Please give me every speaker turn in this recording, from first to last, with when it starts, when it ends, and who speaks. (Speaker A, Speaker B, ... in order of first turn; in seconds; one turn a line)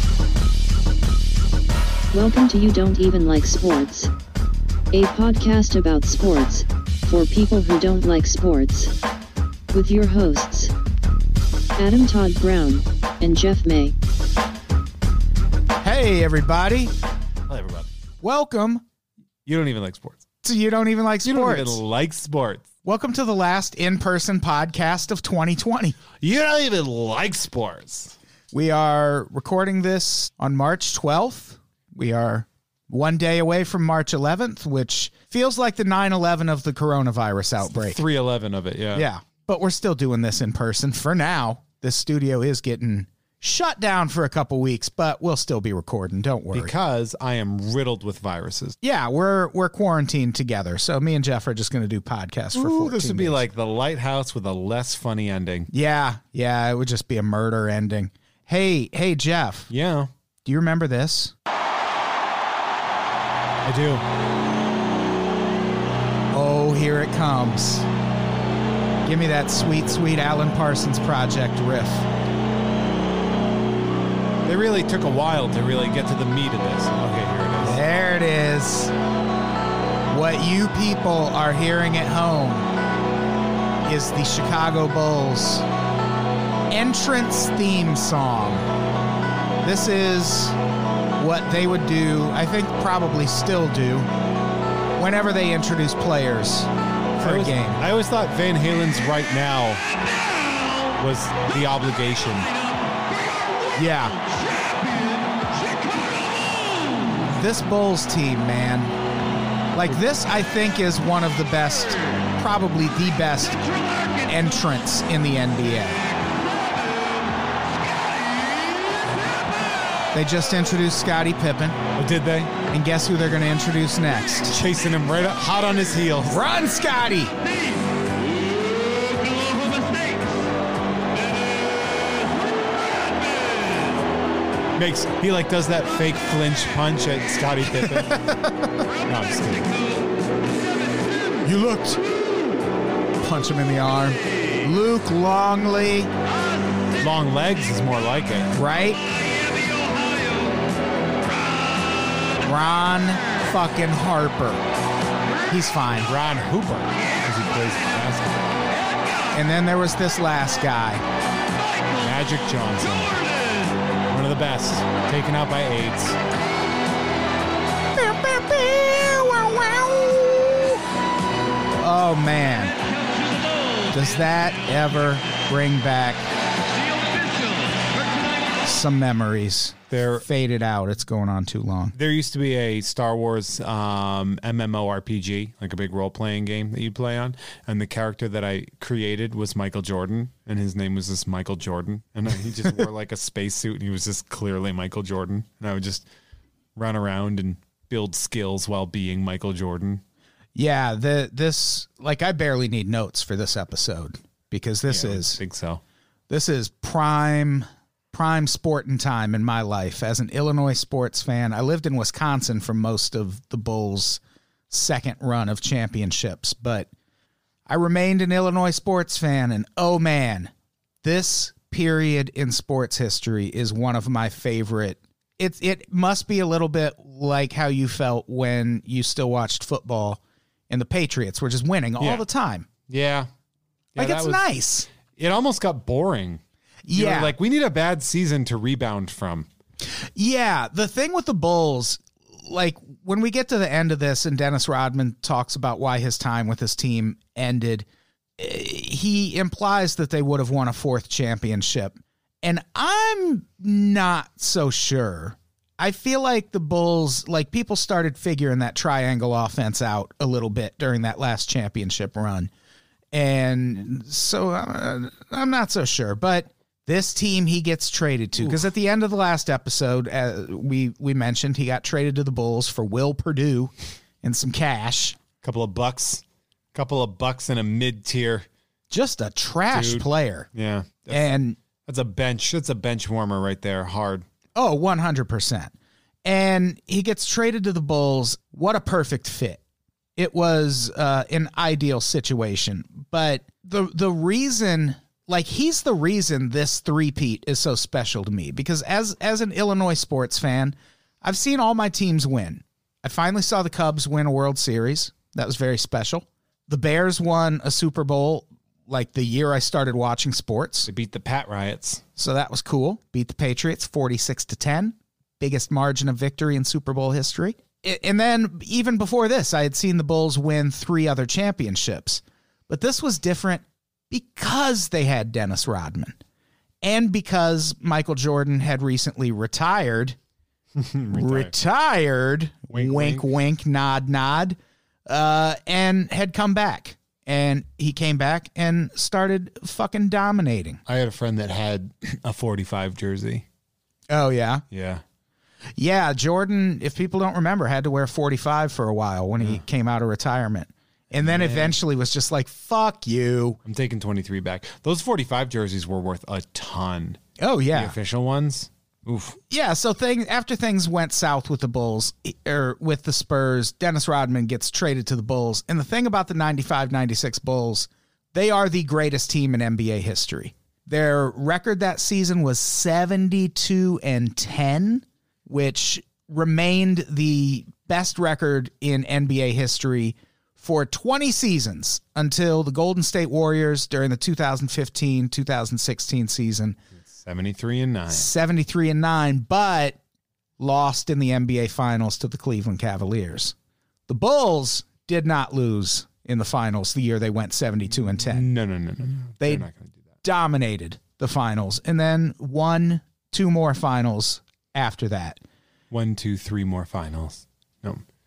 Speaker A: 2.1-4.1
Speaker A: 4.9-8.9
Speaker A: 9.7-10.7
Speaker A: 11.8-13.9
Speaker B: 15.8-16.9
Speaker C: 17.5-17.9
Speaker B: 18.2-18.8
Speaker C: 19.4-20.2
Speaker B: 20.4-21.8
Speaker C: 21.2-22.7
Speaker B: 22.9-26.0
Speaker C: 26.2-28.2
Speaker B: 28.5-38.0
Speaker C: 37.6-39.1
Speaker B: 38.9-46.7
Speaker C: 46.5-48.8
Speaker B: 48.8-53.4
Speaker C: 52.5-55.7
Speaker B: 55.7-59.7
Speaker C: 59.7-60.1
Speaker B: 60.5-61.3
Speaker C: 63.6-64.0
Speaker B: 66.3-67.9
Speaker B: 69.0-72.1
Speaker C: 74.4-77.8
Speaker B: 77.6-78.9
Speaker B: 80.1-82.7
Speaker B: 83.8-85.7
Speaker B: 86.7-88.7
Speaker B: 89.6-90.6
Speaker B: 91.2-94.1
Speaker B: 95.0-97.8
Speaker C: 97.2-99.8
Speaker C: 101.0-102.5
Speaker B: 103.8-104.2
Speaker B: 107.3-108.9
Speaker B: 109.7-113.6
Speaker B: 114.2-116.0
Speaker B: 120.1-121.8
Speaker C: 122.0-122.5
Speaker B: 122.7-124.5
Speaker C: 124.5-126.4
Speaker B: 126.3-127.3
Speaker C: 134.8-138.2
Speaker B: 137.8-138.7
Speaker C: 139.1-139.7
Speaker B: 141.4-142.0
Speaker B: 143.2-146.1
Speaker C: 147.0-148.5
Speaker B: 148.6-149.0
Speaker B: 152.4-154.7
Speaker B: 155.5-156.1
Speaker C: 156.0-158.4
Speaker B: 159.3-161.0
Speaker C: 162.0-163.2
Speaker C: 164.1-166.2
Speaker B: 167.9-170.8
Speaker B: 171.8-172.8
Speaker B: 173.9-176.2
Speaker B: 178.6-181.9
Speaker C: 179.9-180.3
Speaker C: 181.9-196.1
Speaker C: 196.8-200.0
Speaker B: 200.6-205.4
Speaker C: 204.9-205.8
Speaker B: 206.3-216.9
Speaker B: 217.7-220.5
Speaker B: 221.0-230.2
Speaker B: 230.7-232.7
Speaker C: 232.0-232.2
Speaker C: 232.9-233.3
Speaker C: 233.9-234.5
Speaker B: 234.0-234.9
Speaker C: 235.2-236.4
Speaker B: 236.9-237.3
Speaker C: 236.9-239.5
Speaker B: 240.2-247.9
Speaker B: 248.4-262.5
Speaker B: 263.1-273.7
Speaker C: 268.4-268.7
Speaker B: 274.2-275.2
Speaker C: 275.4-278.5
Speaker B: 278.9-280.5
Speaker C: 279.7-281.3
Speaker B: 281.1-281.6
Speaker C: 281.8-284.3
Speaker B: 284.6-285.7
Speaker B: 286.2-289.6
Speaker B: 290.2-310.9
Speaker C: 310.9-312.0
Speaker B: 312.2-326.2
Speaker B: 326.8-330.2
Speaker C: 330.8-331.5
Speaker B: 331.1-334.6
Speaker C: 332.7-333.2
Speaker B: 335.1-340.8
Speaker C: 340.9-343.4
Speaker B: 344.1-344.6
Speaker C: 344.7-345.0
Speaker B: 345.8-353.6
Speaker C: 351.2-351.8
Speaker C: 353.6-357.2
Speaker B: 357.4-357.9
Speaker C: 357.7-359.4
Speaker B: 359.5-386.8
Speaker C: 387.0-388.3
Speaker B: 388.1-390.0
Speaker B: 390.6-393.6
Speaker B: 394.1-398.4
Speaker C: 397.9-400.0
Speaker B: 399.4-399.7
Speaker B: 400.2-405.4
Speaker C: 405.9-408.0